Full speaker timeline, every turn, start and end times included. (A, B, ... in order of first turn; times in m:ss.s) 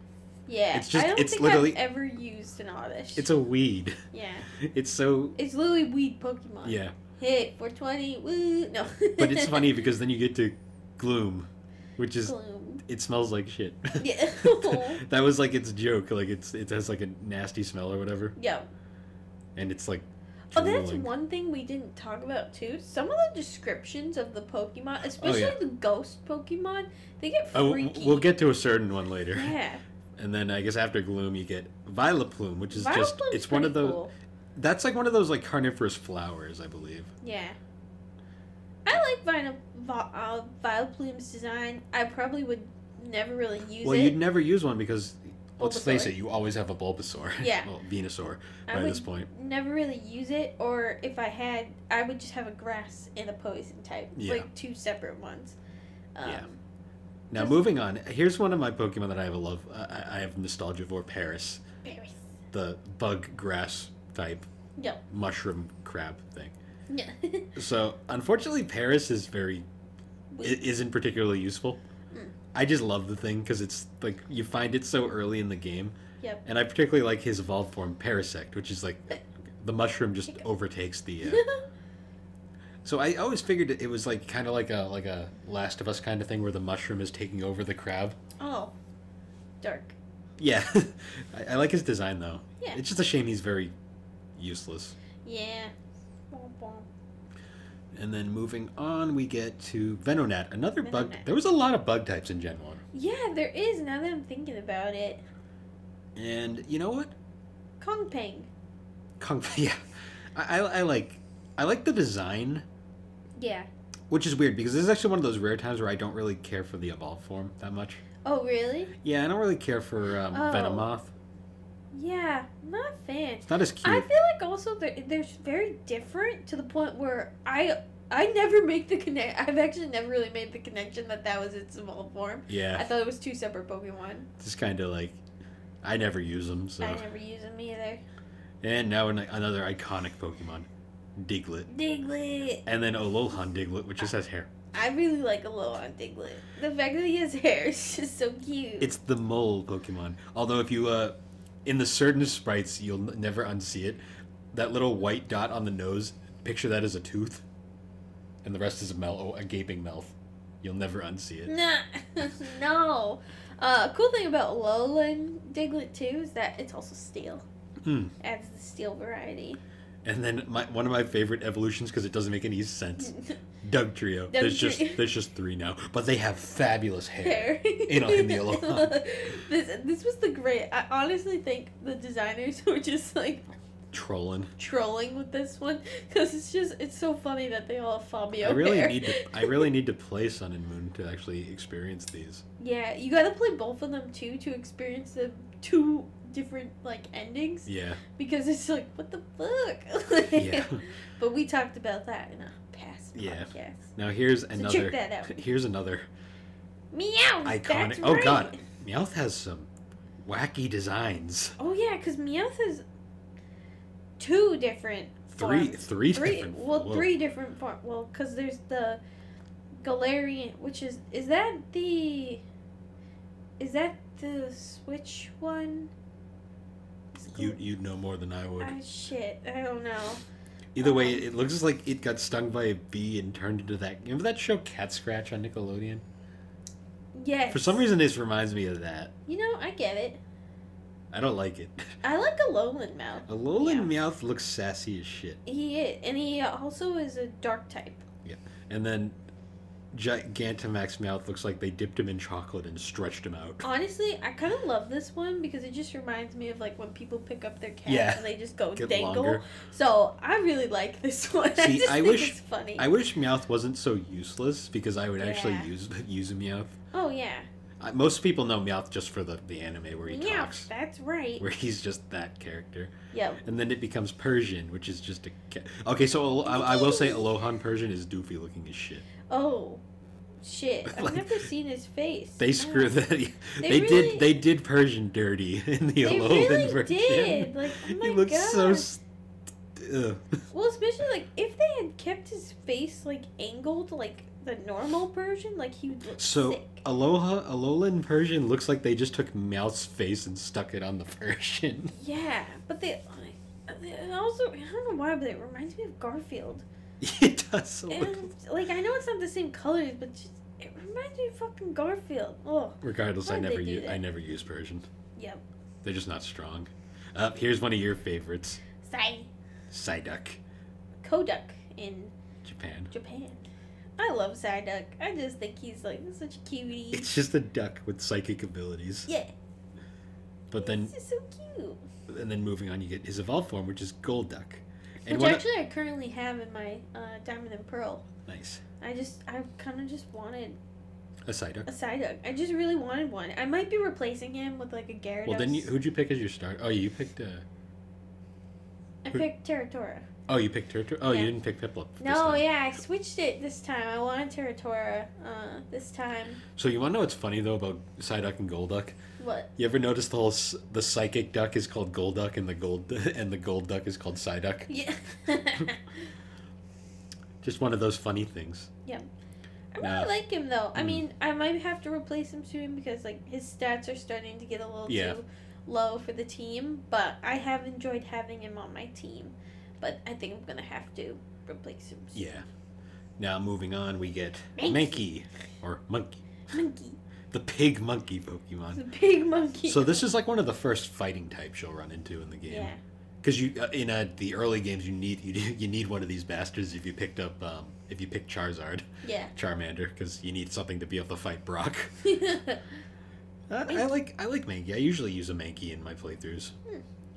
0:00.5-0:03.3 A
0:00.7-0:01.8 B
0:03.2-0:04.0 B
0:04.1-0:04.5 A
0:04.5-0:05.4 B
0:05.4-0:09.8 A
0:06.6-0:07.0 B
0:09.2-0:18.3 B
0:12.2-0:12.8 A
0:14.0-0:15.0 A
0:18.4-0:18.7 A
0:19.6-0:21.1 B
0:20.5-0:28.3 A
0:25.2-0:25.6 B
0:27.5-0:29.5 B
0:29.3-0:29.8 A
0:30.2-0:34.0 B
0:32.7-0:34.1 A
0:34.6-0:37.1 B
0:37.2-0:37.6 A
0:38.8-0:44.2 A
0:43.8-0:49.3 B
0:45.6-0:46.1 A
0:47.4-0:47.7 A
0:48.7-0:55.6 A
0:54.1-0:54.5 B
0:56.1-0:56.6 A
0:57.3-1:01.6 B
0:57.3-0:57.6 A
1:01.8-1:02.2 A
1:02.5-1:04.5 B
1:05.1-1:06.5 B
1:06.9-1:07.5 A
1:07.5-1:09.7 B
1:10.3-1:10.6 A
1:10.4-1:11.8 B
1:12.5-1:21.4 B
1:21.2-1:21.6 A
1:22.8-1:28.2 B
1:28.4-1:28.7 A
1:29.6-1:30.0 A
1:30.4-1:33.7 B
1:34.4-1:35.0 B
1:35.2-1:35.7 A
1:36.3-1:36.9 A
1:37.9-1:42.8 B
1:40.8-1:41.3 A
1:42.9-1:45.2 A
1:46.2-1:47.1 B
1:47.8-1:48.5 A
1:49.2-1:49.8 B
1:50.3-1:52.6 B
1:53.4-1:53.7 A
1:54.1-1:58.0 B
1:58.2-1:58.9 A
1:59.0-2:01.1 B
2:00.3-2:00.9 A
2:01.9-2:14.3 A
2:03.4-2:04.1 B
2:12.5-2:12.9 B
2:14.4-2:15.2 B
2:15.8-2:17.0 B
2:16.8-2:18.0 A
2:18.6-2:21.7 B
2:21.7-2:22.6 A
2:22.6-2:24.5 B
2:24.7-2:28.9 A
2:28.8-2:34.0 B
2:34.5-2:37.4 B
2:38.4-2:41.5 B
2:41.5-2:47.4 A
2:47.8-2:48.1 B
2:48.2-2:49.6 A
2:50.0-2:59.0 B
2:53.0-2:53.4 A
2:54.3-2:55.0 A
2:57.2-3:03.5 A
3:03.9-3:04.5 B
3:04.6-3:09.6 A
3:08.4-3:12.4 B
3:12.6-3:23.9 A
3:17.7-3:18.0 B
3:20.3-3:20.8 B
3:23.2-3:26.1 B
3:24.5-3:25.4 A
3:26.9-3:28.6 A
3:27.4-3:29.7 B
3:30.2-3:31.6 B
3:31.6-3:32.8 A
3:34.2-3:39.0 A
3:35.3-3:37.1 B
3:39.8-3:42.4 A
3:43.6-3:45.9 A
3:47.2-3:47.6 A
3:47.3-3:48.8 B
3:48.6-3:50.2 A
3:50.7-3:56.0 B
3:50.8-3:51.2 A
3:57.1-3:57.8 A
3:57.5-3:59.1 B
3:59.3-4:00.2 A
4:01.1-4:01.9 B
4:02.0-4:03.9 A
4:03.3-4:05.4 B
4:05.4-4:08.0 A
4:08.2-4:09.2 B
4:09.9-4:13.7 B
4:13.6-4:22.9 A
4:17.8-4:19.4 B
4:21.5-4:26.7 B
4:25.2-4:25.7 A
4:26.9-4:27.5 A
4:27.8-4:30.7 B
4:30.1-4:31.4 A
4:31.4-4:39.0 B
4:33.1-4:33.4 A
4:36.4-4:37.3 A
4:39.3-4:39.8 A
4:40.4-4:43.0 A
4:40.8-4:41.4 B
4:42.4-4:49.0 B
4:43.6-4:44.3 A
4:46.0-4:48.9 A
4:49.8-4:50.3 B
4:50.5-4:56.8 A
4:56.2-5:01.9 B
5:01.9-5:06.6 A
5:07.0-5:08.3 B
5:07.9-5:14.0 A
5:12.8-5:14.9 B
5:15.2-5:15.4 A
5:15.8-5:18.6 B
5:18.8-5:19.3 A
5:19.7-5:20.4 B
5:21.0-5:22.1 A
5:22.4-5:22.9 B
5:22.9-5:23.5 A
5:24.0-5:27.1 A
5:26.9-5:29.1 B
5:29.1-5:29.3 A
5:30.5-5:30.9 B
5:30.6-5:31.8 A
5:32.1-5:35.4 B
5:35.0-5:38.0 A
5:38.2-5:38.6 B
5:38.8-5:40.6 A
5:41.3-5:41.7 B
5:41.6-5:45.7 A
5:45.2-5:47.4 B
5:49.0-5:50.0 A
5:50.3-5:52.4 B
5:51.0-5:51.3 A
5:52.0-5:56.4 A
5:56.5-5:59.0 B
5:59.2-5:59.5 A
5:59.6-6:04.7 B
6:04.7-6:06.0 A
6:07.4-6:08.7 B
6:09.7-6:22.3 A
6:09.8-6:10.1 B
6:10.8-6:11.0 B
6:14.9-6:15.2 B
6:22.1-6:22.4 B
6:23.2-6:26.2 B
6:24.6-6:25.0 A
6:26.5-6:27.0 A
6:27.3-6:28.8 B
6:28.7-6:30.0 A
6:29.6-6:41.9 B
6:32.5-6:32.8 A
6:39.0-6:39.3 A
6:42.0-6:42.6 A
6:43.5-6:46.5 B